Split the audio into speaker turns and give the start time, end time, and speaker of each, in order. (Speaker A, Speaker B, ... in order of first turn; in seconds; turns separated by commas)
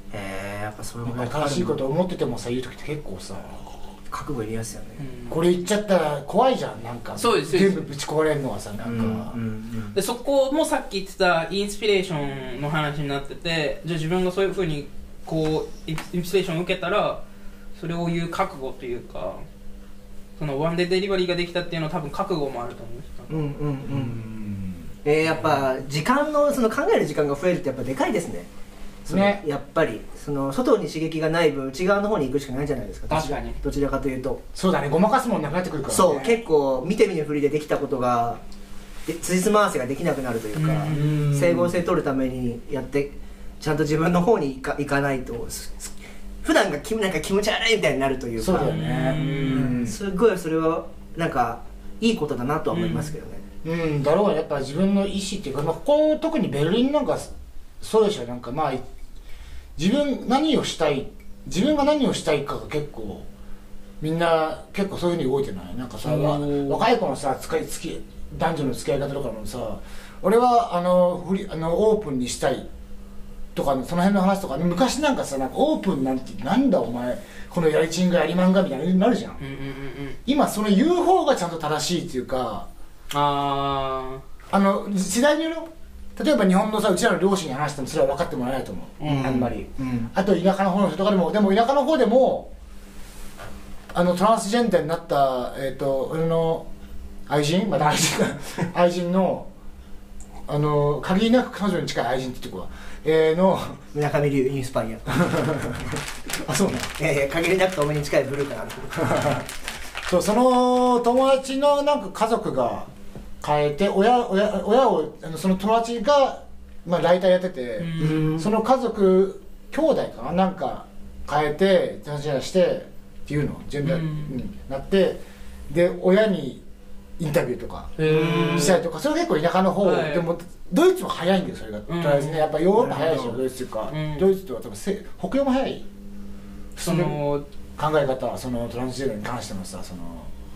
Speaker A: 0.1-1.8, Speaker B: 1.1-3.7, Speaker A: 4.1-5.0, Speaker C: 5.0-5.3, Speaker B: 5.3-9.4, Speaker C: 7.2-7.8, Speaker A: 8.8-10.0, Speaker C: 9.9-17.2, Speaker C: 17.8-19.4, Speaker C: 20.4-23.4, Speaker A: 23.3-24.2, Speaker B: 23.9-24.9, Speaker A: 25.0-28.5, Speaker A: 29.1-34.4, Speaker B: 29.1-29.4, Speaker C: 33.1-33.6, Speaker B: 34.5-36.4, Speaker A: 35.9-38.4, Speaker A: 39.1-53.4, Speaker C: 40.5-41.6, Speaker B: 40.9-41.7, Speaker B: 48.4-50.0, Speaker C: 48.6-49.8, Speaker C: 52.7-53.1, Speaker B: 53.6-58.8, Speaker B: 59.8-63.3, Speaker B: 64.0-72.7, Speaker C: 66.0-66.9, Speaker B: 73.5-79.4, Speaker C: 79.4-80.2, Speaker B: 80.3-82.7, Speaker C: 83.1-84.2, Speaker B: 84.5-92.5, Speaker C: 89.0-89.3, Speaker A: 89.0-90.1, Speaker B: 93.9-96.7, Speaker B: 97.3-99.5, Speaker B: 100.5-103.8, Speaker A: 103.9-105.7, Speaker B: 105.3-105.8, Speaker A: 106.5-109.3, Speaker B: 109.0-109.5, Speaker B: 110.1-112.9, Speaker B: 113.4-126.6, Speaker C: 117.8-118.3, Speaker A: 118.0-118.5, Speaker C: 123.8-124.4, Speaker B: 127.2-135.9, Speaker C: 128.0-128.8, Speaker A: 128.0-128.8, Speaker C: 129.8-130.3, Speaker C: 131.9-132.5, Speaker A: 132.8-133.4, Speaker C: 133.9-134.3, Speaker B: 136.8-137.2, Speaker C: 136.8-137.4, Speaker B: 137.8-140.3